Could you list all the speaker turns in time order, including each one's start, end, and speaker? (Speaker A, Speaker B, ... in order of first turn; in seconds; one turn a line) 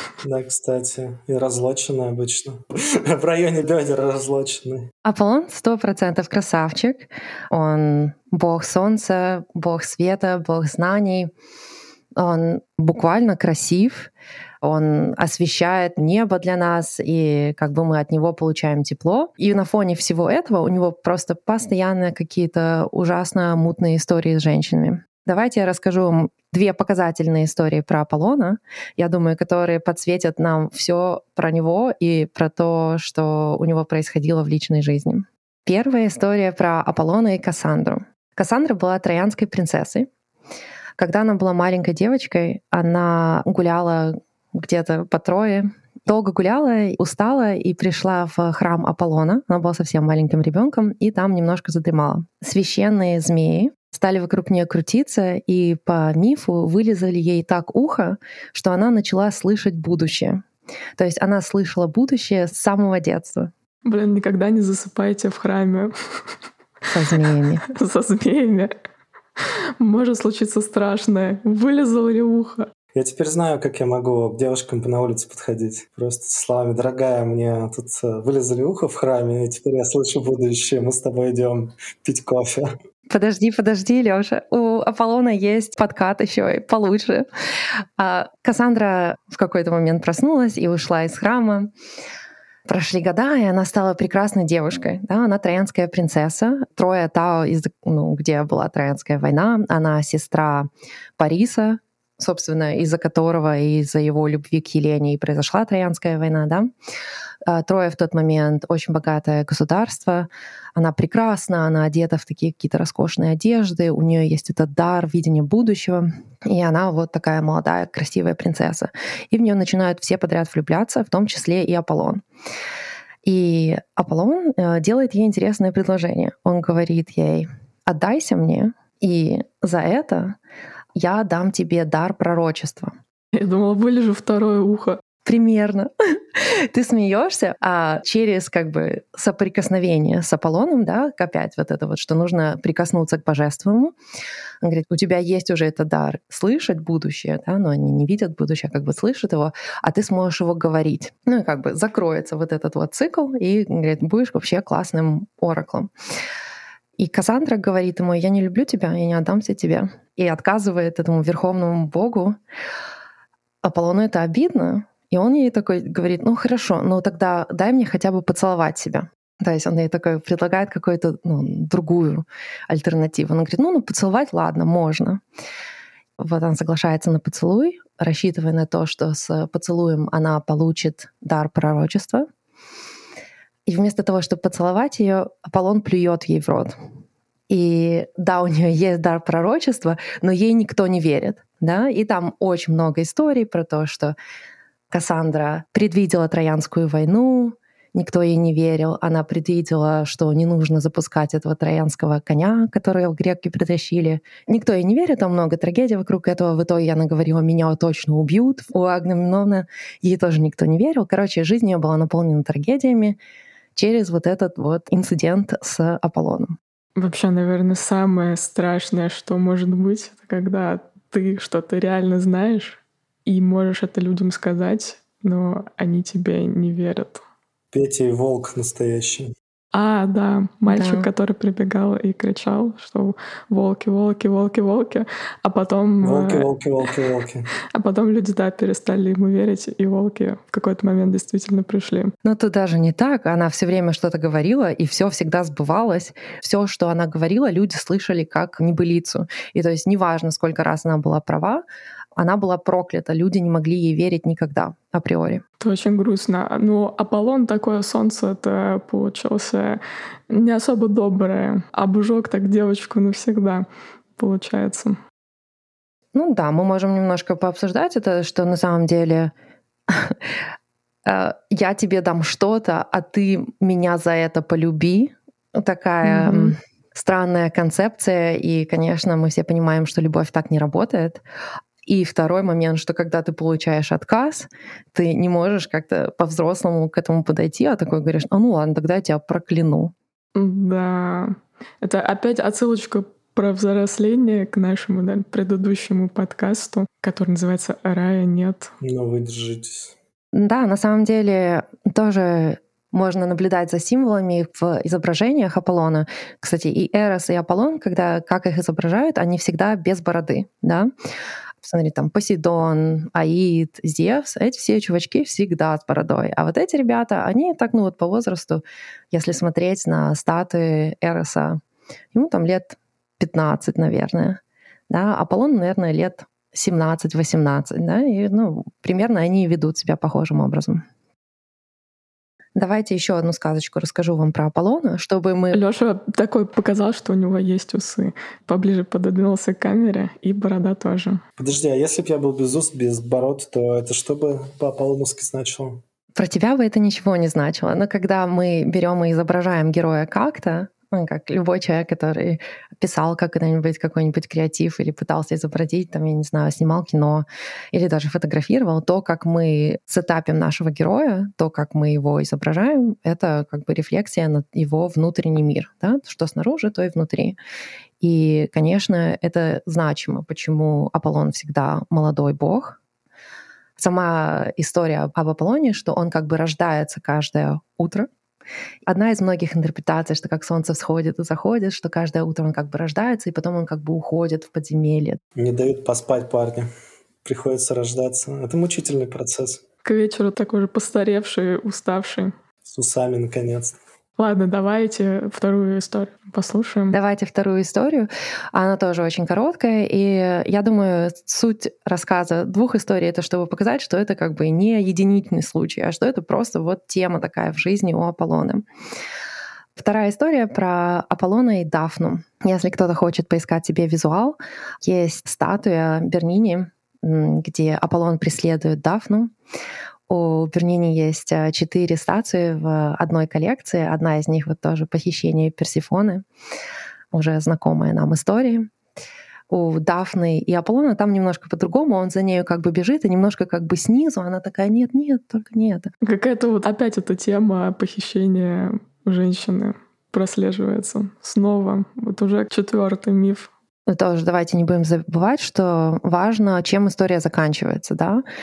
Speaker A: 0.2-4.9
Speaker B: 5.0-11.3
Speaker B: 12.2-14.1
Speaker B: 14.6-40.1
Speaker B: 41.0-60.4
Speaker B: 61.0-63.5
Speaker C: 63.8-66.3
Speaker B: 66.9-67.6
Speaker C: 67.7-68.7
Speaker C: 69.4-72.7
Speaker A: 72.9-82.7
Speaker B: 83.1-87.2
Speaker B: 88.0-91.7
Speaker B: 92.7-106.7
Speaker B: 107.5-122.2
Speaker B: 123.2-130.4
Speaker B: 130.9-132.9
Speaker C: 133.3-135.0
Speaker B: 135.2-143.9
Speaker B: 144.6-155.9
Speaker B: 157.0-162.4
Speaker B: 163.6-175.2
Speaker B: 176.2-182.2
Speaker B: 183.7-186.7
Speaker B: 187.5-194.1
Speaker B: 194.9-213.2
Speaker B: 213.7-216.6
Speaker C: 216.9-227.2
Speaker A: 227.7-229.3
Speaker C: 229.7-236.5
Speaker B: 230.7-231.1
Speaker A: 236.0-237.5
Speaker C: 237.7-242.1
Speaker B: 242.2-255.4
Speaker C: 255.6-265.0
Speaker B: 266.1-269.3
Speaker B: 269.9-270.2
Speaker B: 271.0-281.2
Speaker C: 276.0-276.6
Speaker B: 281.9-289.9
Speaker C: 290.3-298.7
Speaker A: 298.8-299.9
Speaker B: 300.3-310.9
Speaker B: 311.6-321.6
Speaker B: 322.1-330.8
Speaker B: 332.6-335.6
Speaker C: 335.5-341.2
Speaker A: 341.4-345.8
Speaker B: 346.1-367.4
Speaker B: 368.0-372.8
Speaker B: 373.8-378.1
Speaker B: 378.9-385.2
Speaker A: 385.4-386.7
Speaker A: 387.2-389.6
Speaker C: 389.8-392.3
Speaker A: 392.6-393.8
Speaker C: 394.2-396.9
Speaker B: 396.9-408.6
Speaker B: 409.8-419.3
Speaker B: 420.1-426.2
Speaker B: 427.1-428.7
Speaker B: 429.5-435.9
Speaker C: 436.0-443.5
Speaker B: 443.9-448.2